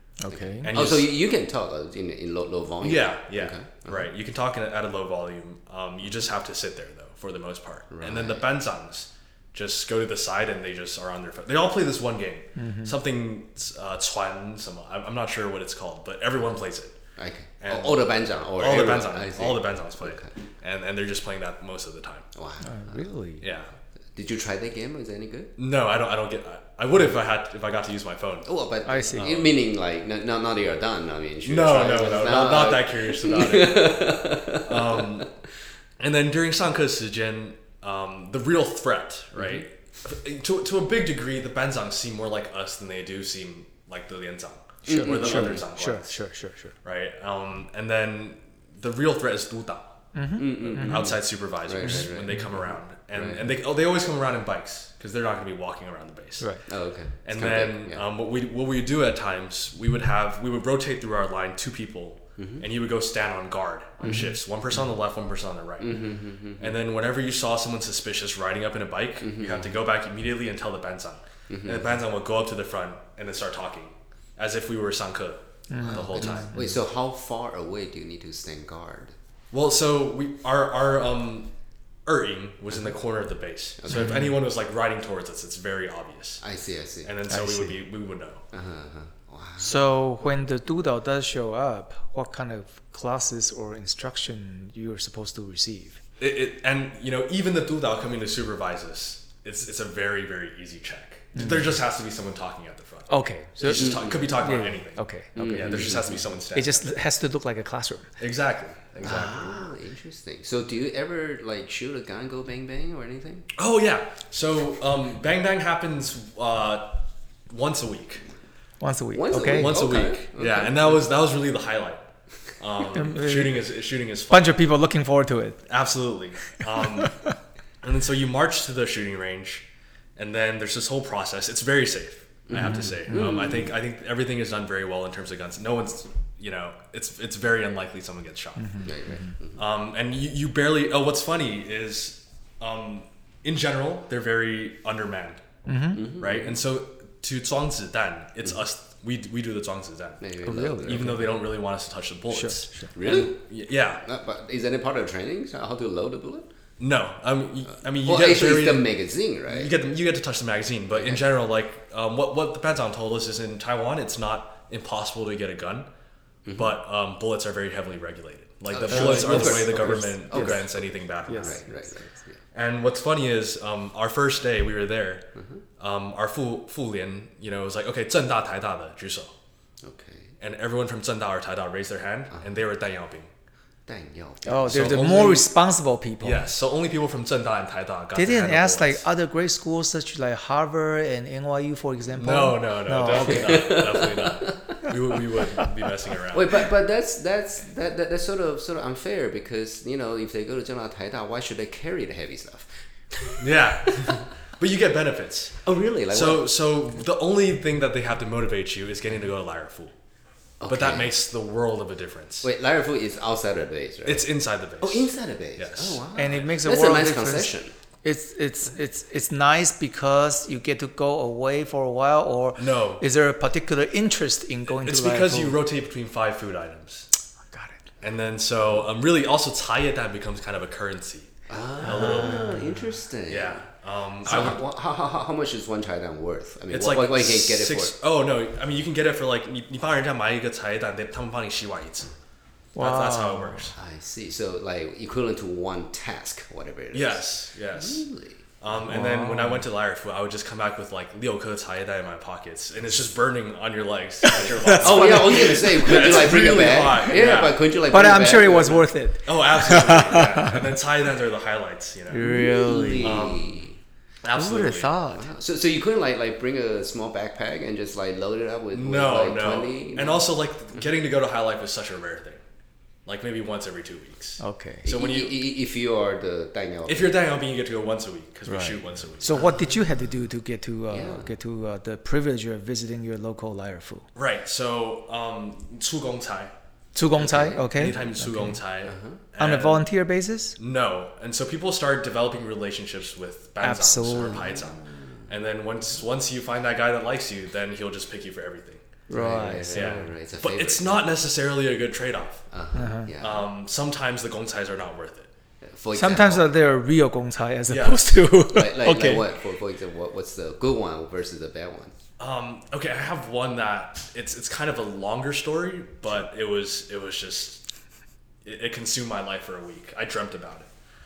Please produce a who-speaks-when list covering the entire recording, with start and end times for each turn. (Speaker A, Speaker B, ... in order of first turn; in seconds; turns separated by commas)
Speaker A: 0.2-0.7, Speaker B: 0.3-4.1, Speaker C: 0.6-1.1, Speaker C: 2.8-17.0, Speaker B: 7.9-8.4, Speaker A: 12.6-13.0, Speaker B: 17.2-20.3, Speaker C: 17.6-22.3, Speaker B: 22.4-23.1, Speaker A: 22.6-23.4, Speaker C: 23.4-23.7, Speaker B: 24.1-25.5, Speaker C: 25.6-28.5, Speaker B: 28.4-35.3, Speaker A: 28.9-29.3, Speaker C: 29.1-29.5, Speaker C: 31.4-35.3, Speaker C: 36.0-46.2, Speaker B: 39.4-39.6, Speaker B: 44.9-45.6, Speaker A: 44.9-46.7, Speaker C: 46.8-50.0, Speaker A: 50.1-51.1, Speaker B: 50.4-53.5, Speaker C: 50.6-56.5, Speaker A: 51.8-52.1, Speaker B: 56.7-58.0, Speaker C: 57.2-66.0, Speaker B: 62.4-62.6, Speaker A: 64.0-64.3, Speaker B: 64.0-64.3, Speaker B: 65.8-66.8, Speaker C: 66.6-76.5, Speaker B: 69.2-69.7, Speaker B: 71.5-72.0, Speaker A: 75.7-76.7, Speaker B: 75.9-79.2, Speaker C: 79.5-81.5, Speaker C: 82.1-86.4, Speaker B: 83.8-84.3, Speaker A: 83.9-84.3, Speaker B: 86.4-87.1, Speaker C: 87.0-88.4, Speaker A: 87.3-87.8, Speaker B: 88.5-89.8, Speaker A: 89.6-96.0, Speaker C: 96.2-106.9, Speaker A: 101.3-101.8, Speaker A: 103.1-108.1, Speaker B: 103.6-104.4, Speaker B: 105.4-106.2, Speaker C: 108.2-109.7, Speaker B: 109.0-113.5, Speaker C: 113.5-118.2, Speaker A: 118.8-119.9, Speaker B: 119.1-121.0, Speaker C: 119.3-122.0, Speaker C: 122.6-124.6, Speaker A: 122.9-123.7, Speaker A: 124.3-125.6, Speaker C: 125.7-127.2, Speaker C: 127.8-129.7, Speaker C: 130.2-138.9, Speaker B: 132.5-133.7, Speaker A: 132.5-133.4, Speaker A: 138.6-139.3, Speaker B: 138.8-139.6, Speaker C: 139.6-145.4, Speaker A: 145.7-146.1, Speaker B: 145.9-146.6, Speaker C: 146.2-150.3, Speaker B: 150.2-151.2, Speaker A: 150.4-151.3, Speaker C: 150.8-154.0, Speaker A: 152.3-152.9, Speaker B: 152.9-153.4, Speaker B: 154.0-156.5, Speaker C: 156.8-158.9, Speaker B: 158.0-159.7, Speaker C: 159.5-165.9, Speaker B: 160.9-161.2, Speaker B: 166.5-166.8, Speaker C: 166.6-171.6, Speaker B: 168.7-170.8, Speaker A: 168.9-172.0, Speaker B: 171.4-172.4, Speaker C: 172.5-175.3, Speaker B: 175.3-175.6, Speaker C: 175.8-179.3, Speaker B: 179.8-180.3, Speaker C: 180.4-183.3, Speaker B: 183.9-185.4, Speaker A: 184.5-186.5, Speaker C: 184.7-185.5, Speaker C: 186.2-189.1, Speaker A: 188.2-193.9, Speaker C: 192.2-196.6, Speaker B: 193.1-194.8, Speaker B: 196.3-204.3, Speaker C: 203.4-209.9, Speaker B: 205.6-206.5, Speaker B: 210.6-211.1, Speaker C: 210.7-212.5, Speaker B: 212.4-217.7, Speaker C: 214.1-216.4, Speaker A: 216.2-225.6, Speaker C: 222.6-223.0, Speaker C: 224.7-227.1, Speaker A: 227.5-227.8, Speaker C: 228.0-232.6, Speaker B: 231.5-233.7, Speaker A: 231.8-232.8, Speaker C: 233.3-234.6, Speaker B: 234.2-237.9, Speaker C: 236.7-242.1, Speaker A: 242.8-243.7, Speaker C: 242.8-243.8, Speaker B: 243.8-248.4, Speaker C: 246.9-248.0, Speaker C: 248.6-257.7, Speaker A: 248.9-249.7, Speaker A: 254.2-256.0, Speaker B: 254.8-258.9, Speaker A: 257.8-260.6, Speaker C: 259.2-262.3, Speaker A: 262.1-263.3, Speaker B: 262.1-263.8, Speaker C: 263.0-263.5, Speaker C: 264.2-264.9, Speaker A: 264.3-265.3, Speaker B: 265.1-270.2, Speaker C: 268.7-272.4, Speaker C: 273.1-275.4, Speaker A: 274.4-274.9, Speaker B: 274.9-277.1, Speaker C: 276.9-279.5, Speaker A: 278.5-284.1, Speaker B: 279.3-279.8, Speaker B: 280.9-281.3, Speaker C: 284.1-286.5, Speaker A: 286.9-288.6, Speaker B: 287.2-287.6, Speaker C: 287.7-289.9, Speaker B: 288.8-289.2, Speaker A: 289.4-290.6, Speaker C: 290.6-298.8, Speaker A: 293.6-294.5, Speaker B: 294.5-295.2, Speaker A: 299.1-300.1, Speaker B: 299.1-301.1, Speaker C: 299.7-302.4, Speaker B: 302.5-303.5, Speaker A: 302.8-303.1, Speaker C: 303.2-305.3, Speaker B: 305.6-306.5, Speaker A: 305.9-309.3, Speaker C: 307.7-308.2, Speaker B: 308.5-311.9, Speaker C: 312.2-317.6, Speaker C: 318.4-320.7